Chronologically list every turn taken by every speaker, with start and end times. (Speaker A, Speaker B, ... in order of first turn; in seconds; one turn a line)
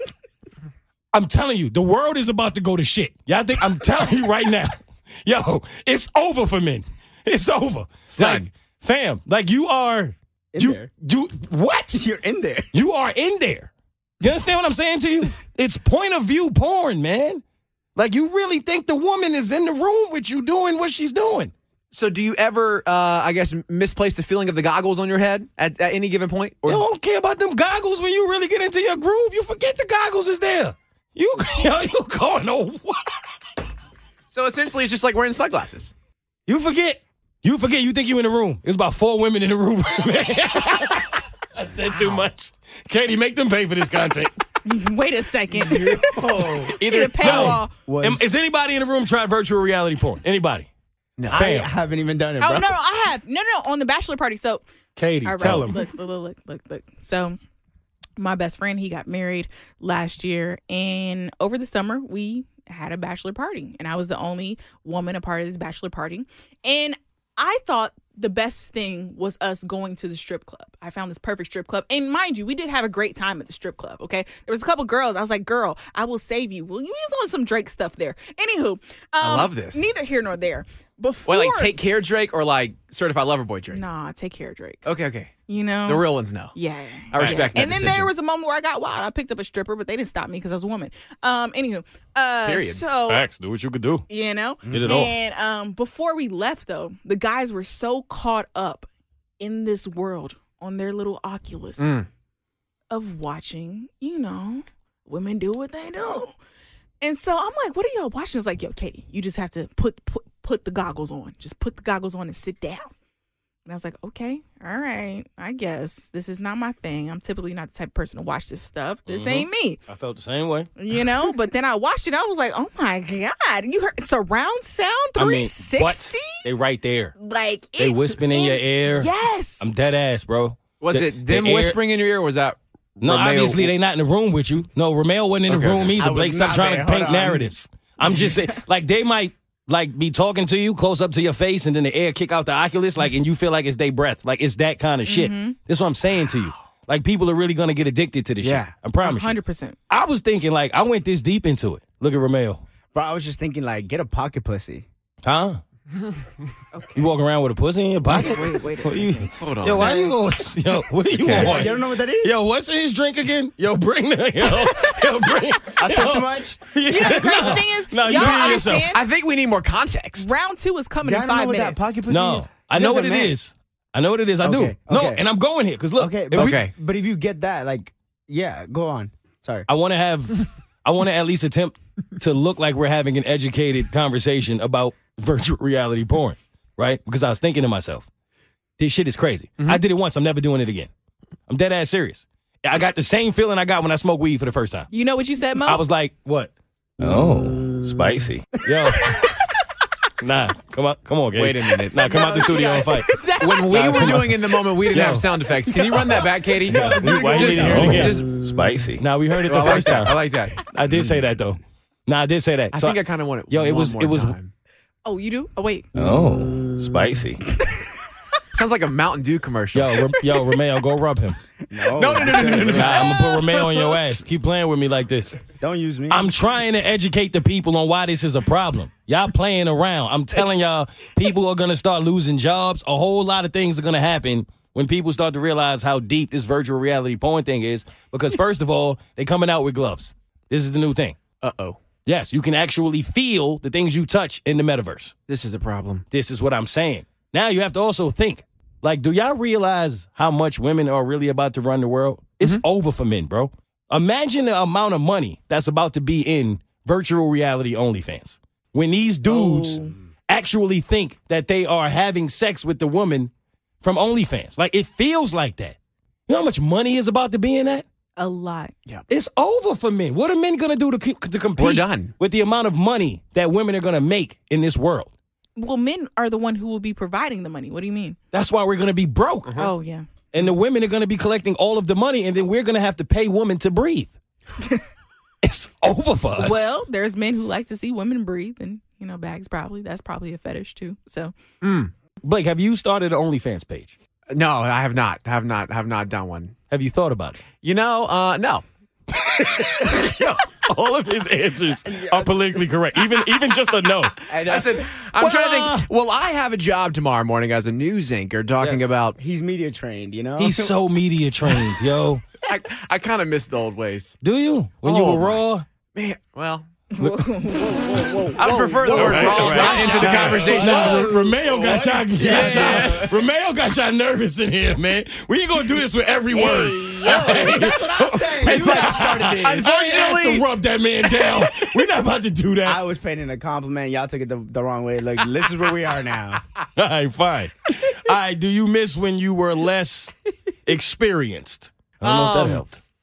Speaker A: 1.1-12.0
Speaker B: 8.1-8.5
Speaker C: 10.5-10.9
Speaker C: 11.9-12.7
Speaker A: 12.7-17.4
Speaker A: 18.0-21.5
Speaker B: 21.9-26.8
Speaker A: 26.7-33.1
Speaker B: 34.3-35.9
Speaker A: 36.5-44.3
Speaker D: 44.6-47.7
Speaker C: 45.5-48.2
Speaker A: 46.7-50.7
Speaker B: 51.2-51.5
Speaker C: 51.3-52.8
Speaker A: 51.3-51.7
Speaker D: 52.4-54.6
Speaker A: 55.0-55.8
Speaker D: 55.2-57.4
Speaker D: 58.2-81.8
Speaker B: 79.2-79.9
Speaker B: 81.3-83.8
Speaker D: 83.7-84.8
Speaker B: 84.8-85.3
Speaker D: 85.5-93.3
Speaker B: 85.9-86.5
Speaker B: 87.1-88.1
Speaker A: 87.2-87.8
Speaker B: 92.4-92.9
Speaker A: 93.1-94.0
Speaker D: 94.1-98.9
Speaker C: 94.7-95.0
Speaker A: 94.7-95.1
Speaker D: 99.4-101.9
Speaker B: 101.8-102.1
Speaker D: 102.9-106.4
Speaker D: 107.0-112.9
Speaker D: 113.7-119.8
Speaker A: 119.1-120.7
Speaker D: 120.8-126.5
Speaker A: 125.2-127.1
Speaker D: 127.2-129.7
Speaker A: 127.8-131.8
Speaker B: 130.8-133.7
Speaker A: 133.0-149.3
Speaker B: 135.5-136.0
Speaker C: 135.9-137.5
Speaker D: 145.1-145.6
Speaker B: 148.4-148.7
Speaker D: 149.0-149.8
Speaker A: 149.9-152.6
Speaker C: 152.9-154.9
Speaker A: 155.2-155.6
Speaker D: 156.7-157.1
Speaker A: 157.0-168.9
Speaker D: 158.1-160.2
Speaker B: 159.4-160.0
Speaker B: 161.2-161.7
Speaker C: 161.3-162.4
Speaker C: 165.8-166.6
Speaker D: 166.9-169.0
Speaker B: 168.1-170.3
Speaker D: 170.2-171.9
Speaker C: 171.0-173.3
Speaker A: 172.1-176.6
Speaker C: 174.4-175.2
Speaker C: 176.0-179.7
Speaker B: 176.3-176.7
Speaker A: 179.7-188.1
Speaker A: 188.8-190.9
Speaker A: 191.5-194.9
Speaker D: 194.9-195.8
Speaker A: 195.7-199.3
Speaker A: 200.2-205.3
Speaker B: 201.3-202.1
Speaker D: 202.0-203.7
Speaker C: 202.1-202.7
Speaker B: 203.5-208.3
Speaker C: 205.7-208.2
Speaker A: 206.7-214.3
Speaker B: 209.5-210.6
Speaker B: 212.7-214.5
Speaker D: 215.1-215.9
Speaker A: 215.9-217.4
Speaker B: 218.5-220.0
Speaker A: 219.7-221.4
Speaker C: 221.6-223.1
Speaker B: 221.9-223.1
Speaker A: 222.6-225.4
Speaker D: 223.0-223.9
Speaker C: 225.5-226.3
Speaker A: 226.1-241.2
Speaker B: 241.4-241.8
Speaker A: 242.1-245.1
Speaker B: 245.3-246.1
Speaker A: 246.1-263.3
Speaker D: 259.3-259.9
Speaker A: 263.8-265.8
Speaker A: 266.3-267.9
Speaker D: 268.2-268.7
Speaker A: 269.1-275.1
Speaker B: 271.6-272.1
Speaker D: 275.6-278.2
Speaker A: 278.3-279.6
Speaker B: 279.5-279.7
Speaker D: 279.6-280.0
Speaker A: 280.3-284.2
Speaker A: 285.4-286.7
Speaker D: 286.3-291.3
Speaker B: 291.6-291.9
Speaker A: 292.2-293.9
Speaker B: 294.3-296.6
Speaker A: 296.7-297.4
Speaker B: 297.5-298.6
Speaker A: 299.1-304.2
Speaker C: 301.9-302.3
Speaker C: 304.3-304.8
Speaker B: 304.4-309.2
Speaker A: 305.2-305.9
Speaker C: 309.2-310.8
Speaker A: 310.4-312.2
Speaker B: 312.4-314.2
Speaker A: 314.2-315.6
Speaker B: 314.8-315.4
Speaker B: 315.9-316.7
Speaker D: 316.9-320.2
Speaker C: 317.9-323.2
Speaker B: 318.4-321.1
Speaker A: 318.9-332.8
Speaker B: 322.2-323.1
Speaker D: 326.3-327.6
Speaker C: 327.0-329.7
Speaker B: 328.4-330.5
Speaker B: 331.0-331.9
Speaker C: 332.6-336.4
Speaker A: 336.8-340.1
Speaker A: 340.7-342.8
Speaker B: 342.0-342.6